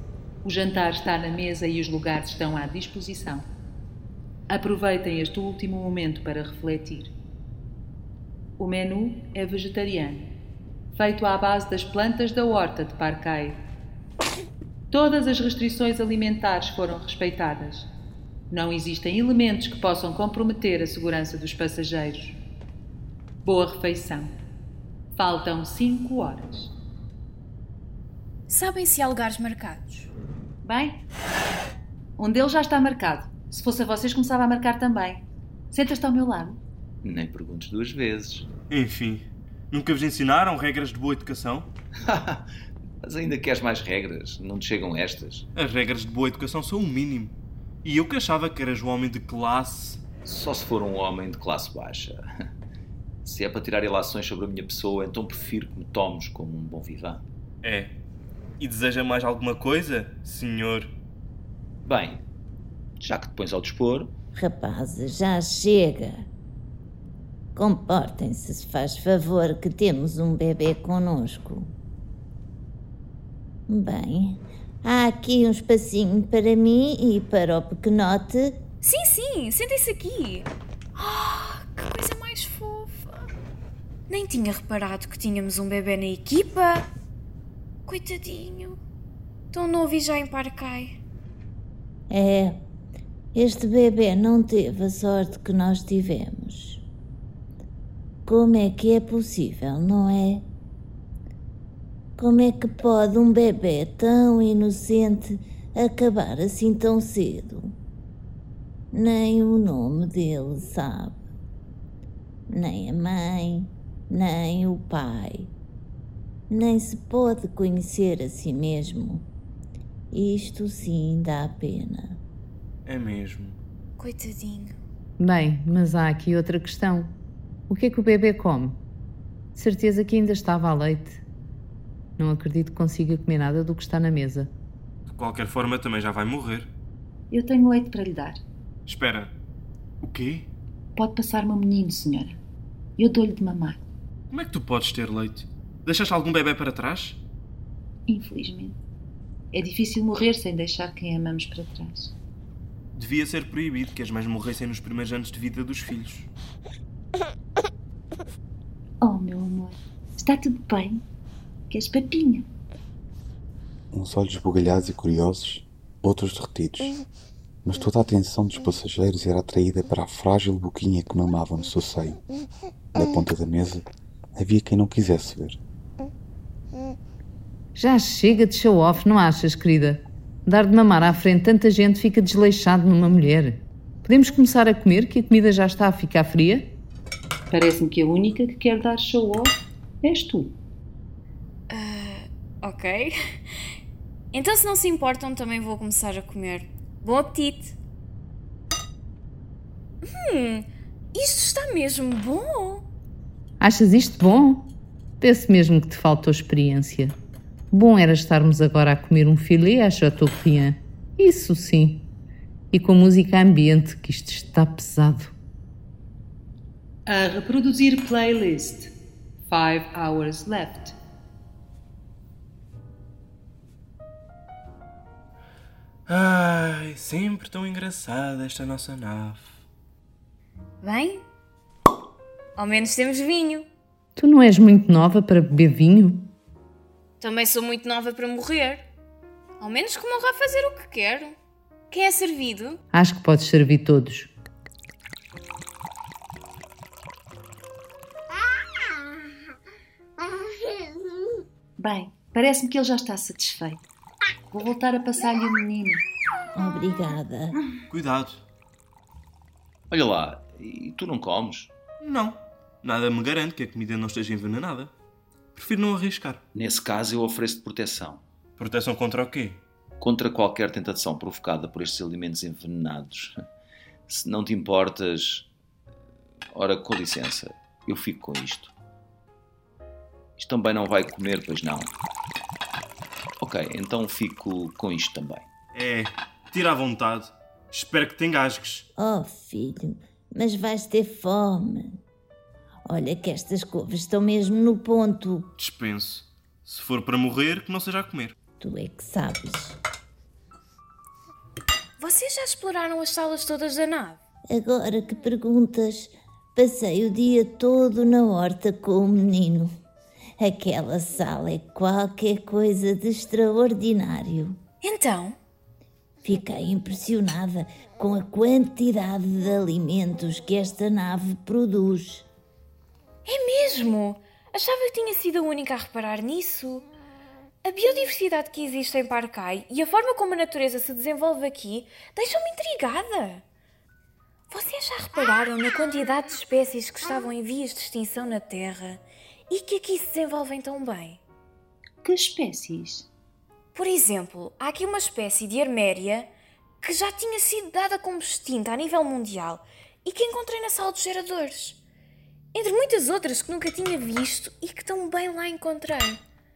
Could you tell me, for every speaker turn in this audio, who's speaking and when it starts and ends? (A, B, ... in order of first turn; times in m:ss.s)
0:00.4-0:03.4 A
0:04.5-0:07.1 A
0:08.6-0:10.3 A
0:10.9-0:13.6 A
0:14.9-0:17.9 A
0:18.5-0:22.4 A
0:23.4-0:24.3 A
0:25.1-0:26.7 A
0:28.5-0:30.1 B
0:30.6-0:31.0 A
0:32.2-0:36.6 A
0:37.0-0:38.5 C
0:38.7-0:41.7 D
0:42.1-0:42.4 C
0:43.0-0:45.4 C
0:45.5-0:50.0 D
0:50.2-0:52.2 C
0:53.2-0:57.2 C
0:57.6-0:57.9 D
0:58.6-1:00.9 D
1:01.8-1:02.2 C
1:03.0-1:04.1 C
1:04.3-1:06.2 E
1:07.6-1:11.7 E
1:13.7-1:18.6 E
1:18.8-1:23.3 B
1:24.1-1:26.8 B
1:27.8-1:28.8 B
1:29.5-1:31.0 B
1:32.1-1:32.6 E
1:33.3-1:36.8 E
1:38.3-1:40.4 E
1:42.2-1:47.8 E
1:48.9-1:51.2 E
1:52.5-1:55.5 E
1:56.5-1:59.2 E
2:00.1-2:02.2 E
2:02.8-2:03.6 D
2:04.0-2:04.8 B
2:05.2-2:07.1 F
2:07.7-2:08.8 F
2:09.5-2:11.2 F
2:12.2-2:14.5 F
2:15.1-2:16.7 D
2:17.3-2:18.4 A
2:18.8-2:19.3 D
2:20.0-2:20.5 D
2:21.0-2:22.4 A
2:23.0-2:23.8 A
2:24.3-2:27.2 D
2:28.1-2:28.8 A
2:29.5-2:32.1 A
2:33.0-2:36.3 D
2:39.0-2:41.0 A
2:41.7-2:42.5 A
2:43.9-2:47.0 G
2:47.6-2:52.2 G
2:52.9-2:53.8 G
2:54.4-2:55.6 G
2:57.7-3:06.7 F
3:07.5-3:10.5 A
3:11.7-3:13.1 B
3:14.3-3:17.7 B
3:20.1-3:22.8 B
3:23.6-3:27.1 F
3:27.7-3:32.1 F
3:32.7-3:35.3 F
3:37.0-3:38.9 A
3:39.4-3:41.0 A
3:46.1-3:49.5 D
3:50.8-3:51.2 B
3:52.6-3:53.7 B
3:54.2-3:56.3 F
3:57.2-3:58.8 B
3:59.6-4:01.3 B
4:01.9-4:02.8 B
4:02.9-4:04.3 F
4:11.8-4:13.8 A
4:14.5-4:16.0 A
4:16.5-4:17.6 E
4:17.9-4:18.4 D
4:19.9-4:21.7 C
4:22.0-4:24.9 D
4:25.5-4:26.4 D
4:26.5-4:28.2 C
4:28.6-4:29.6 D
4:30.0-4:33.4 C
4:34.1-4:35.5 C
4:36.5-4:38.7 C
4:40.4-4:41.9 C
4:43.4-4:45.5 C
4:45.7-4:48.8 D
4:49.0-4:52.0 E
4:52.9-4:55.5 E
4:55.6-4:58.4 D
4:58.6-4:59.8 E
5:02.0-5:04.2 B
5:04.5-5:09.7 E
5:10.4-5:14.6 E
5:14.8-5:15.4 B
5:16.2-5:22.2 E
5:23.2-5:26.9 B
5:27.6-5:33.4 B
5:34.5-5:41.2 B
5:42.0-5:43.1 A
5:43.7-5:46.3 B
5:46.8-5:51.8 B
5:52.5-5:56.2 B